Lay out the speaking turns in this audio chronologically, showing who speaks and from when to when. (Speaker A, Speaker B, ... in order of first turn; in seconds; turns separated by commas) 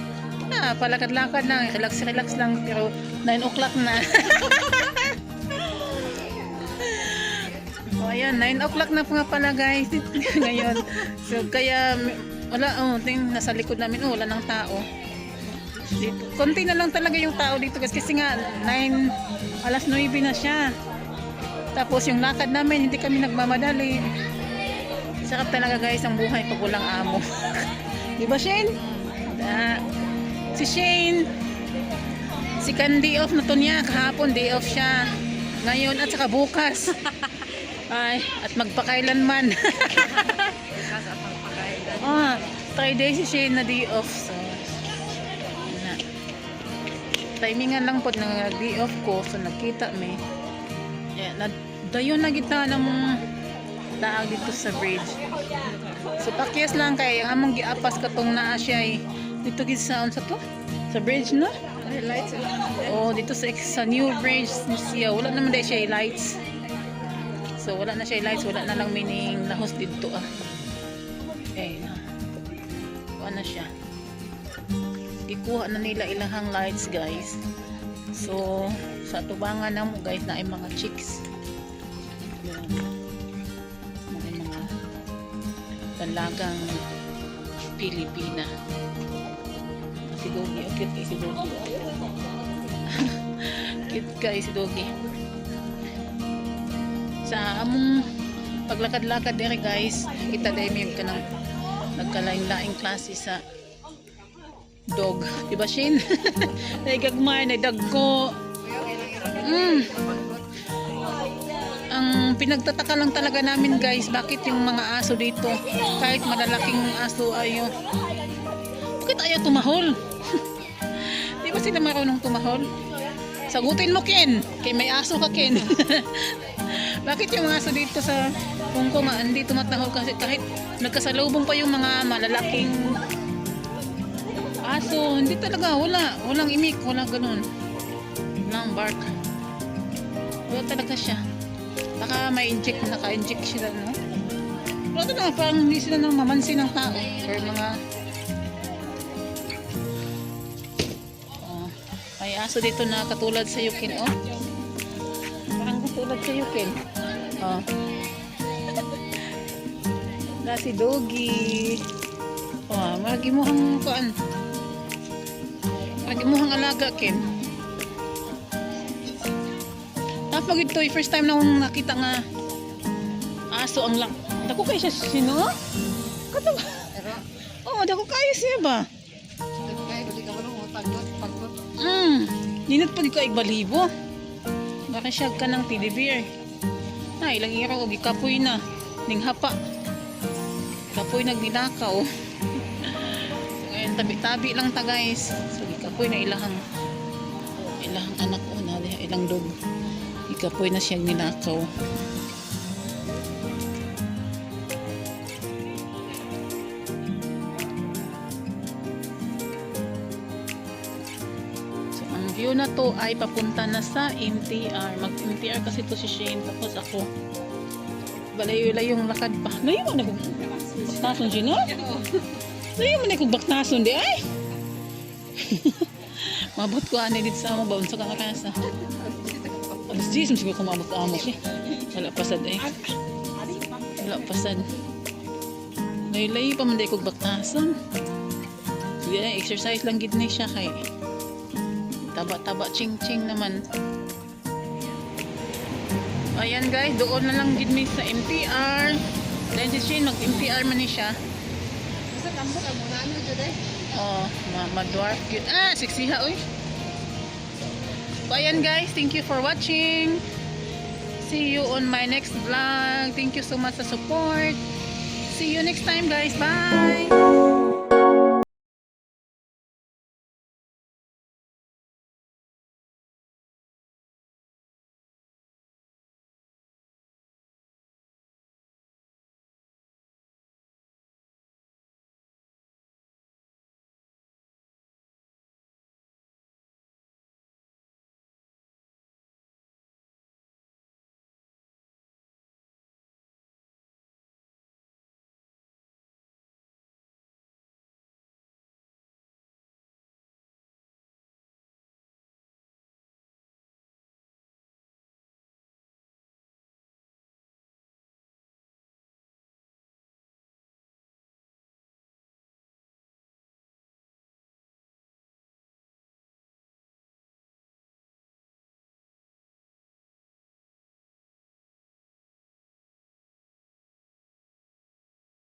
Speaker A: 0.3-14.8, Speaker A: 15.8-20.7, Speaker A: 21.7-24.1, Speaker A: 25.2-29.9, Speaker A: 30.5-31.3, Speaker A: 32.6-40.9, Speaker B: 40.1-42.4, Speaker A: 41.9-44.8, Speaker A: 45.5-46.0, Speaker A: 47.4-50.2, Speaker A: 51.1-53.2, Speaker A: 54.0-55.2, Speaker A: 56.1-61.5, Speaker B: 61.8-62.9, Speaker A: 62.8-66.4, Speaker A: 67.5-70.2, Speaker A: 71.5-72.0, Speaker A: 73.2-73.7, Speaker A: 75.3-77.4, Speaker A: 78.1-81.2, Speaker A: 82.2-82.9, Speaker A: 84.1-84.7, Speaker A: 86.0-86.8, Speaker A: 87.8-88.5, Speaker A: 90.1-91.8, Speaker A: 92.8-94.9, Speaker A: 97.2-98.1, Speaker A: 98.7-101.3, Speaker A: 101.9-103.4, Speaker A: 104.9-108.4, Speaker B: 108.6-110.5, Speaker A: 109.4-109.9, Speaker A: 111.9-117.8, Speaker A: 118.9-122.8, Speaker A: 123.5-133.0, Speaker A: 134.5-137.5, Speaker A: 138.4-139.1, Speaker A: 140.5-141.2, Speaker A: 142.0-144.0, Speaker A: 144.9-147.8, Speaker A: 151.3-154.2, Speaker A: 155.6-157.7, Speaker A: 158.6-159.2, Speaker A: 160.3-161.8, Speaker A: 162.7-164.1, Speaker A: 165.8-167.2, Speaker A: 170.3-172.2, Speaker A: 173.5-175.5, Speaker A: 176.3-177.1, Speaker B: 176.9-177.2, Speaker A: 177.6-178.9, Speaker B: 179.7-181.5, Speaker A: 181.8-183.9, Speaker A: 184.9-186.3, Speaker A: 187.2-189.6, Speaker A: 190.9-196.6, Speaker A: 197.6-199.5, Speaker A: 200.3-201.7, Speaker A: 211.9-217.1, Speaker A: 218.3-221.8, Speaker B: 221.8-222.2, Speaker A: 222.6-224.2, Speaker A: 225.3-228.6, Speaker B: 228.8-230.0, Speaker A: 229.9-232.9, Speaker B: 231.2-231.7, Speaker A: 233.9-234.7, Speaker A: 236.1-237.8, Speaker A: 239.0-240.8, Speaker A: 242.1-243.6, Speaker A: 246.3-251.1, Speaker B: 252.1-253.8, Speaker A: 253.9-256.4, Speaker A: 258.2-260.2, Speaker A: 261.2-264.6, Speaker A: 265.3-267.2